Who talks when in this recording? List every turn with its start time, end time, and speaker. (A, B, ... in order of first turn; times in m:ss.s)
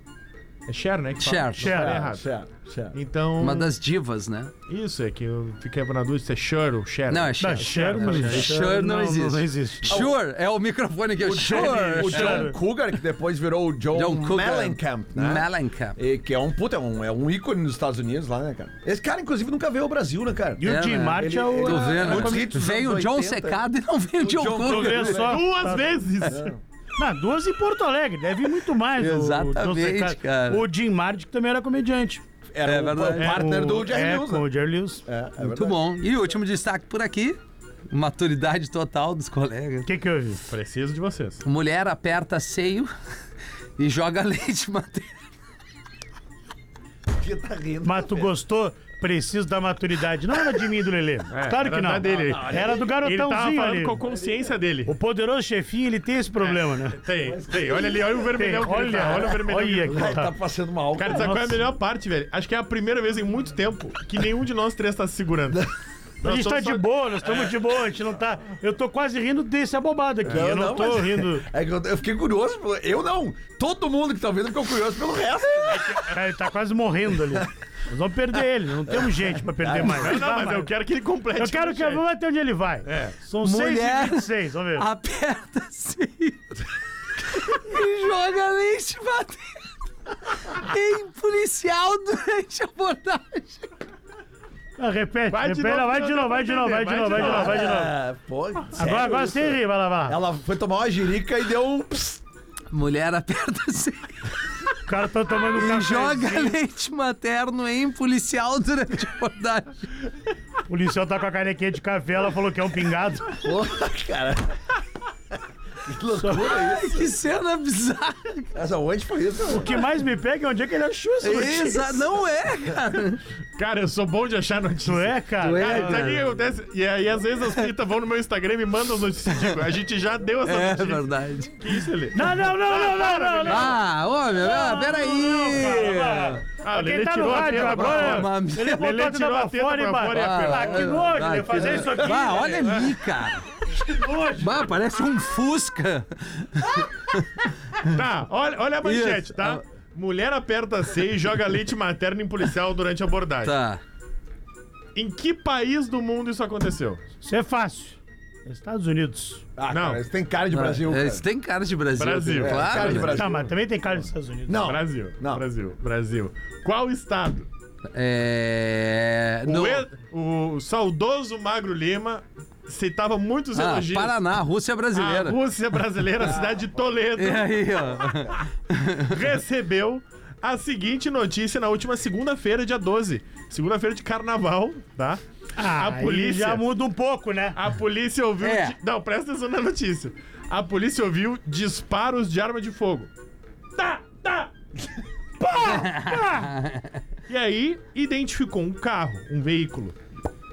0:00.7-0:02.3 A
0:01.2-0:01.9 B
0:01.6-0:02.0 C
0:01.7-0:03.0 D
0:02.9-0:03.7 A
0:03.4-0:04.5 B
0:04.7-0:08.6 A
0:07.1-0:12.5 B
0:07.4-0:10.0 C
0:09.9-0:10.2 D
0:11.2-0:23.6 D
0:11.4-0:12.6 C
0:13.9-0:16.0 B
0:20.6-0:22.5 C
0:20.6-0:25.3 B
0:24.2-0:25.4 D
0:24.7-0:26.0 C
0:24.7-0:26.5 A
0:26.2-0:26.6 D
0:27.0-0:32.2 C
0:29.0-0:30.6 B
0:32.5-0:34.5 D
0:32.6-0:33.4 B
0:33.2-0:35.0 C
0:35.0-0:35.8 D
0:35.4-0:37.4 B
0:37.9-0:39.9 B
0:39.9-0:40.4 C
0:40.5-0:41.4 A
0:41.4-0:42.9 B
0:43.8-0:45.1 B
0:47.1-0:48.3 D
0:47.8-0:54.0 C
0:51.3-0:54.9 A
0:52.1-0:53.0 D
0:54.0-0:54.6 D
0:54.9-0:57.0 C
0:56.4-1:00.2 A
0:57.2-0:58.3 D
0:58.3-1:00.3 C
0:58.9-1:01.6 D
1:00.9-1:05.7 A
1:01.1-1:01.6 C
1:06.2-1:07.5 A
1:06.2-1:11.5 C
1:10.3-1:16.0 D
1:15.7-1:16.2 A
1:16.1-1:20.7 C
1:18.9-1:20.2 D
1:19.8-1:22.0 A
1:21.4-1:24.9 C
1:22.9-1:23.1 A
1:23.4-1:26.6 B
1:27.2-1:29.7 B
1:30.3-1:33.7 B
1:34.8-1:37.9 C
1:35.3-1:37.8 A
1:37.1-1:42.2 D
1:38.8-1:40.2 C
1:42.7-1:44.7 B
1:44.9-1:46.6 C
1:45.5-1:49.8 B
1:50.7-1:53.3 C
1:53.4-1:54.6 D
1:55.8-1:57.1 D
1:56.2-1:56.4 C
1:56.3-1:58.5 B
1:58.6-1:59.8 D
1:59.5-2:02.0 C
2:01.2-2:03.2 B
2:03.6-2:11.0 A
2:04.8-2:06.2 C
2:05.4-2:06.2 B
2:09.3-2:09.6 B
2:10.4-2:11.9 B
2:11.6-2:13.8 A
2:12.2-2:13.8 C
2:13.5-2:16.4 B
2:14.4-2:22.9 C
2:16.6-2:23.0 A
2:17.7-2:18.9 B
2:20.1-2:23.5 B
2:23.8-2:24.7 C
2:24.4-2:27.3 B
2:27.8-2:33.6 A
2:28.8-2:29.6 B
2:33.4-2:33.8 B
2:35.0-2:37.0 A
2:37.2-2:39.4 C
2:39.6-2:41.2 D
2:39.7-2:40.0 A
2:40.5-2:43.1 B
2:42.0-2:43.3 A
2:42.4-2:43.5 D
2:43.1-2:44.7 C
2:44.5-2:45.4 D
2:44.6-2:47.5 A
2:47.9-2:49.8 B
2:49.5-2:54.1 A
2:53.6-2:55.4 B
2:54.9-2:58.0 A
2:57.2-2:59.2 B
2:59.1-3:05.2 A
3:05.6-3:07.6 C
3:05.8-3:06.6 A
3:07.5-3:13.1 A
3:08.4-3:08.8 B
3:13.8-3:14.5 A
3:15.4-3:16.5 C
3:15.6-3:17.0 B
3:17.3-3:20.0 A